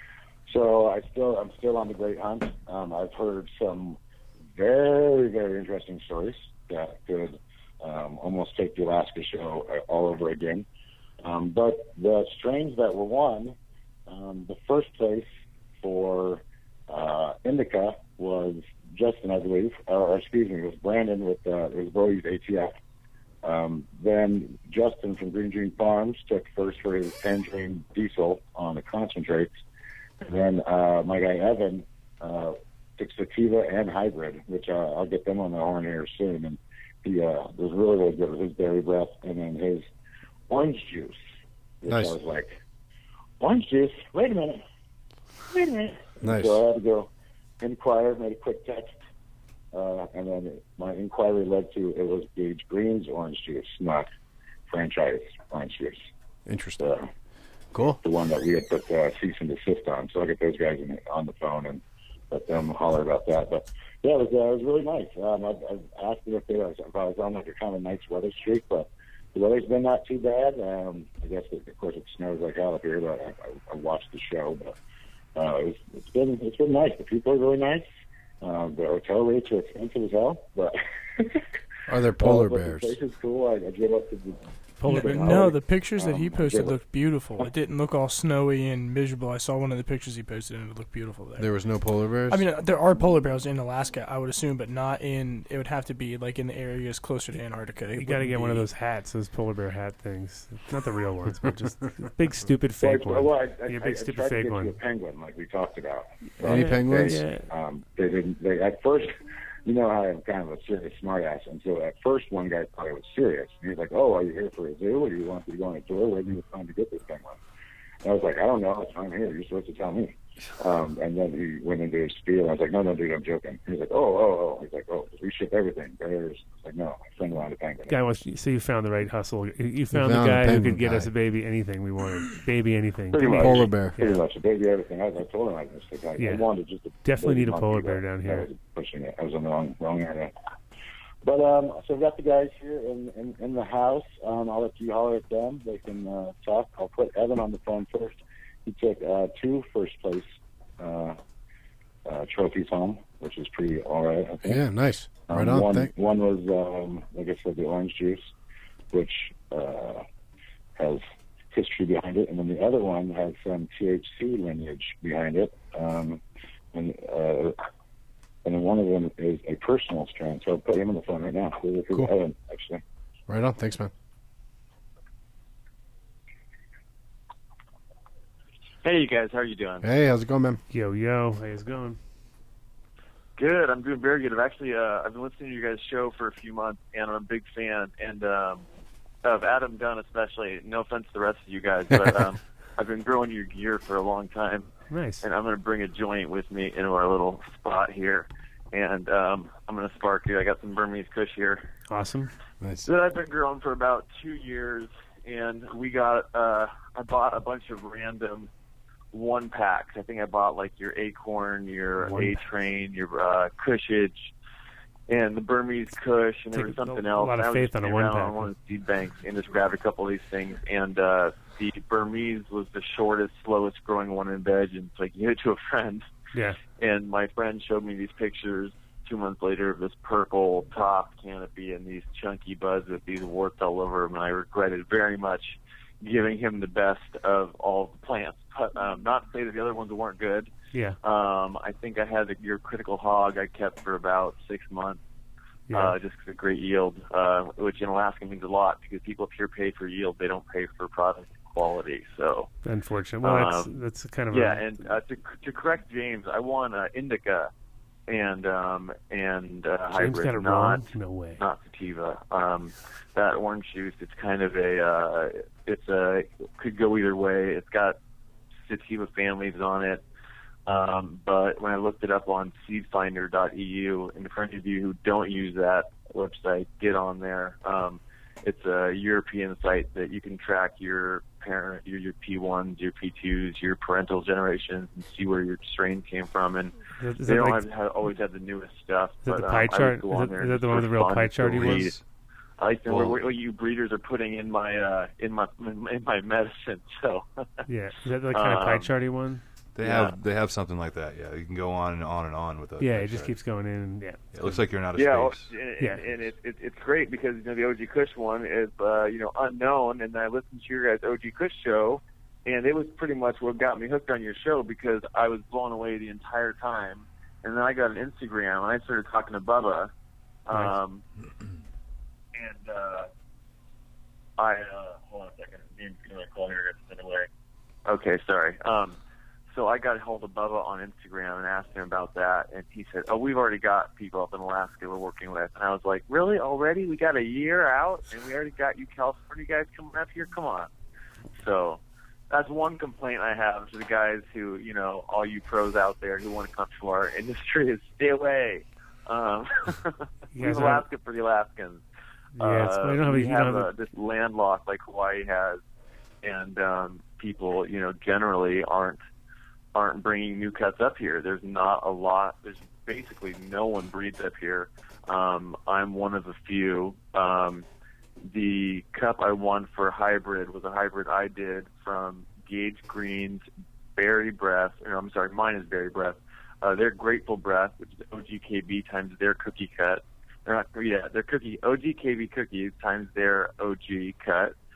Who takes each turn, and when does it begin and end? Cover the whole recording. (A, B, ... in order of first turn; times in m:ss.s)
0:00.5-0:04.0 A
0:04.6-0:10.7 A
0:11.2-0:13.6 A
0:14.1-0:15.3 A
0:15.8-0:22.8 A
0:23.4-0:29.5 A
0:30.2-0:39.9 A
0:40.5-0:41.2 A
0:41.8-0:42.5 A
0:41.9-0:42.2 B
0:43.4-0:44.6 A
0:45.5-0:47.1 A
0:46.2-0:46.6 B
0:47.6-0:49.0 A
0:49.7-0:54.1 A
0:54.7-0:56.1 A
0:56.5-0:56.9 B
0:56.8-0:57.1 A
0:57.7-0:58.0 B
0:58.0-1:14.8 A
1:15.4-1:17.9 A
1:18.4-1:21.4 A
1:21.9-1:23.0 B
1:22.2-1:26.8 A
1:24.8-1:25.4 C
1:24.9-1:31.5 D
1:31.4-1:32.4 B
1:32.3-1:38.7 D
1:38.0-1:44.8 C
1:42.8-1:49.1 A
1:46.4-1:47.5 C
1:46.4-1:47.2 B
1:49.6-1:57.4 A
1:58.0-2:08.0 A
2:07.9-2:14.2 C
2:09.9-2:11.1 B
2:13.1-2:20.3 A
2:13.3-2:14.0 B
2:16.2-2:16.5 C
2:17.0-2:18.5 C
2:21.2-2:30.3 A
2:30.8-2:31.2 A
2:32.1-2:34.6 A
2:34.4-2:35.9 B
2:35.3-2:38.3 A
2:38.9-2:40.0 A
2:40.8-2:46.2 A
2:46.7-2:47.6 A
2:48.4-2:52.8 A
2:53.3-2:53.9 B
2:58.8-2:59.9 E
2:59.8-3:00.6 B
3:00.7-3:02.0 C
3:03.4-3:08.6 E
3:09.2-3:21.7 E
3:14.9-3:15.2 C
3:21.9-3:22.3 C
3:22.6-3:22.9 B
3:22.8-3:28.5 E
3:29.1-3:34.3 E
3:32.0-3:32.4 C
3:35.1-3:46.1 E
3:36.5-3:38.5 C
3:46.3-3:46.6 C
3:46.6-4:00.5 E
4:01.0-4:05.0 E
4:05.7-4:06.0 C
4:05.7-4:12.5 E
4:12.6-4:14.6 C
4:13.2-4:17.5 E
4:18.1-4:28.0 E
4:20.0-4:21.4 C
4:28.6-4:30.0 E
4:30.7-4:52.0 E
4:47.0-4:47.6 C
4:49.2-4:52.0 C
4:52.6-4:57.3 E
4:57.7-4:59.4 C
4:58.3-4:58.9 E
4:59.8-5:03.3 F
4:59.8-5:00.2 E
5:02.8-5:04.2 C
5:04.3-5:05.5 F
5:04.9-5:19.9 E
5:20.5-5:21.0 E
5:22.4-5:23.1 E
5:24.4-5:27.3 E
5:27.9-5:29.0 E
5:29.5-5:40.7 E
5:41.4-5:51.8 E
5:50.3-5:50.8 C
5:52.4-5:53.7 C
5:52.4-5:55.6 E
5:56.2-5:59.0 E
5:59.7-6:07.7 E
6:08.2-6:24.5 E